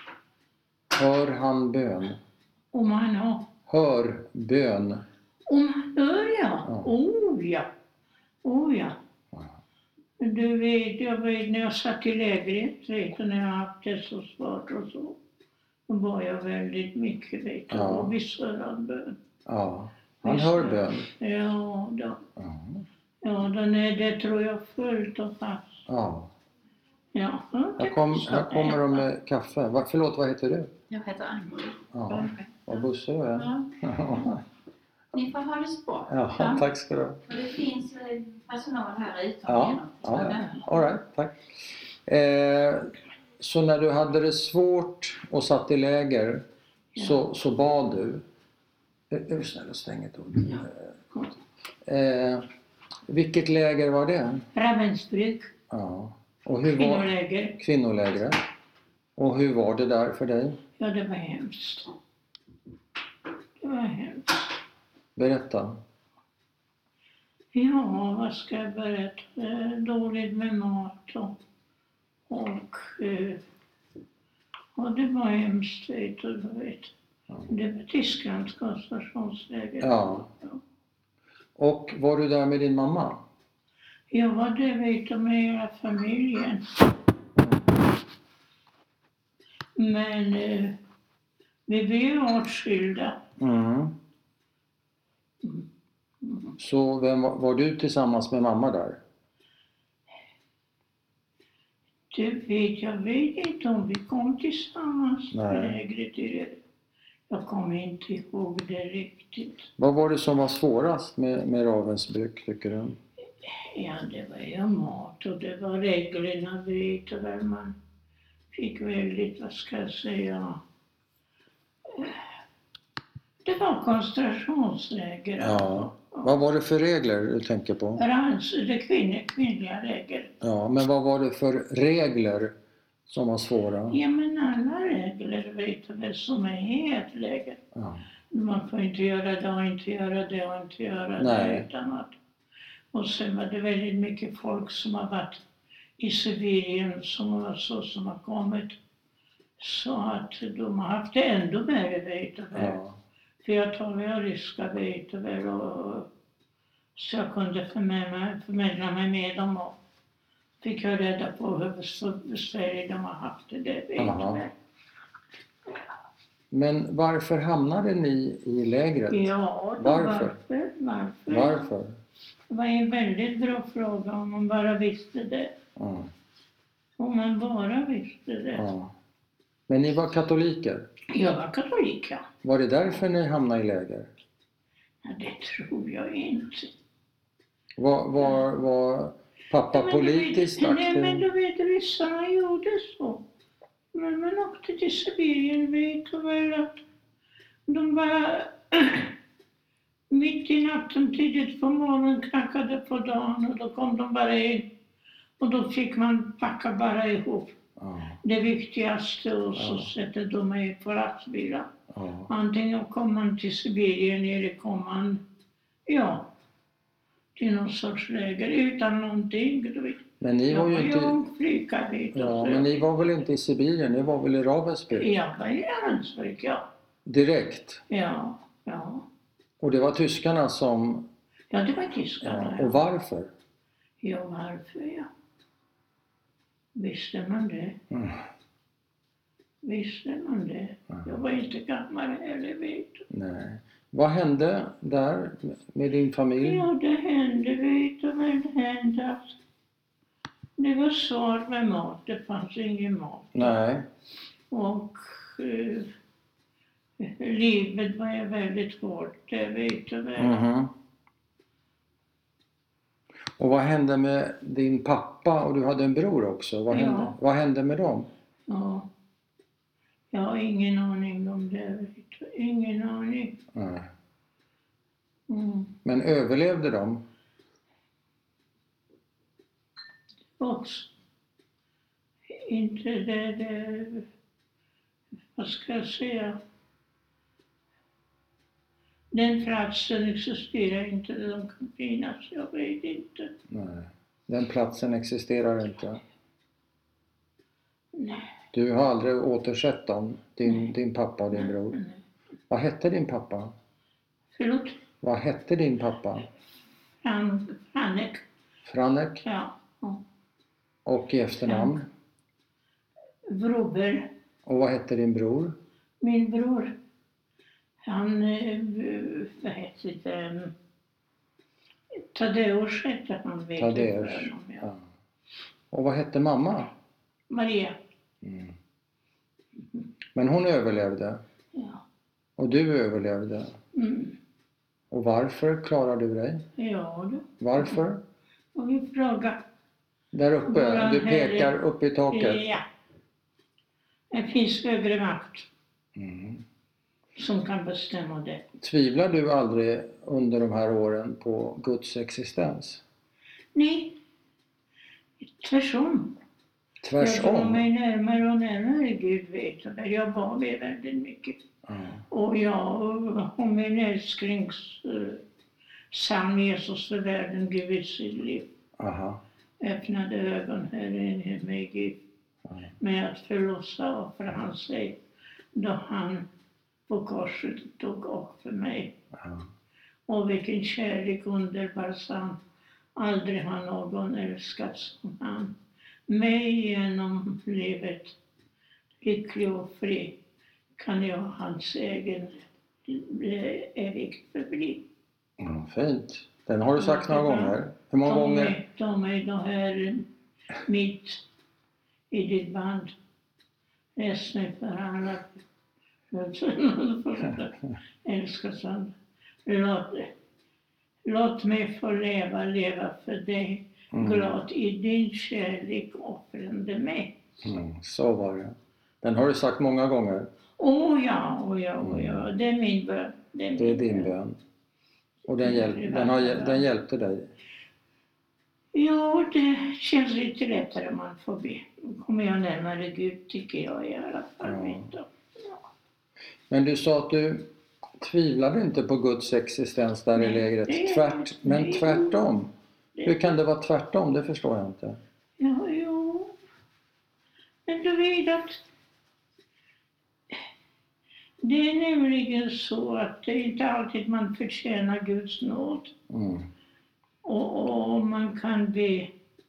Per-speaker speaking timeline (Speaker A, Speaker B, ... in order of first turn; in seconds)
Speaker A: 0.9-2.2, 3.7-5.0, 17.7-18.1, 19.4-21.1, 22.4-22.8, 25.9-26.3, 27.8-30.7, 31.9-34.4, 36.1-37.2, 39.5-41.4, 42.0-46.5, 47.0-48.2, 49.1-50.9, 51.9-52.5, 53.1-54.5, 55.7-58.4, 59.2-60.6, 65.2-65.8, 79.8-80.3, 81.6-83.2, 93.4-94.0, 96.6-99.0, 105.3-105.8, 109.8-113.0, 125.4-128.0, 130.4-132.5, 133.1-134.0, 137.7-138.0, 141.2-141.7, 152.5-153.0, 164.0-164.4, 166.5-170.3, 171.3-172.0, 175.8-176.1, 178.5-178.9, 179.7-180.9, 182.4-184.1, 187.8-191.2, 207.8-208.2, 209.6-209.9, 211.9-212.3, 220.2-221.2, 222.1-225.1, 227.0-227.8, 229.6-231.1, 232.2-233.3, 237.9-238.2, 243.1-246.7, 253.3-253.9, 260.2-260.7, 263.4-268.1, 273.5-273.9, 275.9-277.0, 293.5-296.0, 298.5-301.8, 302.5-303.5, 305.0-306.3, 308.7-309.2, 310.9-311.9, 314.5-315.6, 323.6-324.8, 325.7-326.7, 328.2-328.5, 330.1-331.2, 332.4-333.6, 334.9-336.4, 337.4-338.0, 340.1-342.5, 346.0-346.4, 348.6-352.8, 356.8-357.6, 361.7-362.0, 368.8-369.2, 379.1-379.5, 395.4-398.6, 413.9-414.3, 417.4-420.3, 421.8-422.2, 423.6-424.4, 425.3-427.3, 434.4-434.9, 436.5-437.5, 438.0-442.5, 443.0-445.0, 456.1-456.5
Speaker B: 2.7-3.5, 5.5-7.7, 8.4-9.0, 10.2-15.2, 15.9-19.2, 20.2-22.2, 23.2-25.7, 27.1-29.0, 46.9-47.2, 54.5-55.5, 56.7-57.6, 60.8-61.9, 63.6-64.6, 67.5-71.4, 72.3-73.4, 74.8-76.9, 77.5-80.6, 84.1-86.9, 89.8-90.8, 91.7-93.2, 96.2-96.5, 102.1-106.6, 107.3-109.6, 113.4-117.8, 118.5-120.6, 121.9-122.2, 123.4-126.3, 128.0-130.3, 133.9-137.6, 138.3-142.2, 142.9-145.4, 146.0-148.8, 149.6-152.8, 153.4-156.1, 156.9-159.7, 160.6-164.5, 169.1-171.6, 172.5-175.5, 177.0-178.7, 181.1-182.3, 185.0-186.7, 189.7-193.2, 193.9-196.8, 197.7-199.1, 200.1-204.7, 205.4-207.5, 208.2-211.7, 212.3-215.2, 215.9-216.3, 217.3-222.7, 224.9-226.7, 227.9-229.1, 231.5-232.8, 234.0-235.1, 236.7-237.8, 239.6-243.0, 246.4-249.3, 250.6-253.6, 254.5-255.9, 257.0-260.4, 266.7-267.2, 268.5-268.9, 270.1-273.4, 275.3-275.8, 280.4-280.9, 282.3-284.1, 285.4-286.4, 289.1-293.3, 297.9-298.3, 301.3-301.9, 304.3-304.8, 307.0-308.2, 309.2-310.0, 311.5-311.8, 313.3-314.1, 316.0-316.8, 317.8-320.5, 322.0-324.7, 327.3-327.8, 331.5-331.8, 333.7-334.2, 336.6-337.8, 338.5-339.4, 340.4-341.5, 342.1-342.6, 344.1-345.5, 347.2-348.4, 353.5-354.0, 355.2-356.2, 357.0-361.4, 362.1-365.2, 365.9-368.5, 369.6-372.0, 372.8-375.0, 375.6-376.3, 376.9-378.9, 380.1-382.4, 383.0-385.6, 386.1-388.2, 389.0-390.2, 390.8-394.9, 396.8-400.1, 400.6-401.2, 402.1-402.9, 404.0-405.4, 406.1-410.1, 411.1-417.2, 420.6-424.1, 425.4-426.6, 428.7-435.6, 440.2-442.2, 443.0-443.3, 445.4-446.4, 447.7-448.6, 451.4-455.9, 457.2-459.1
Speaker C: 30.9-32.8, 33.4-33.7, 35.1-36.7, 37.3-40.8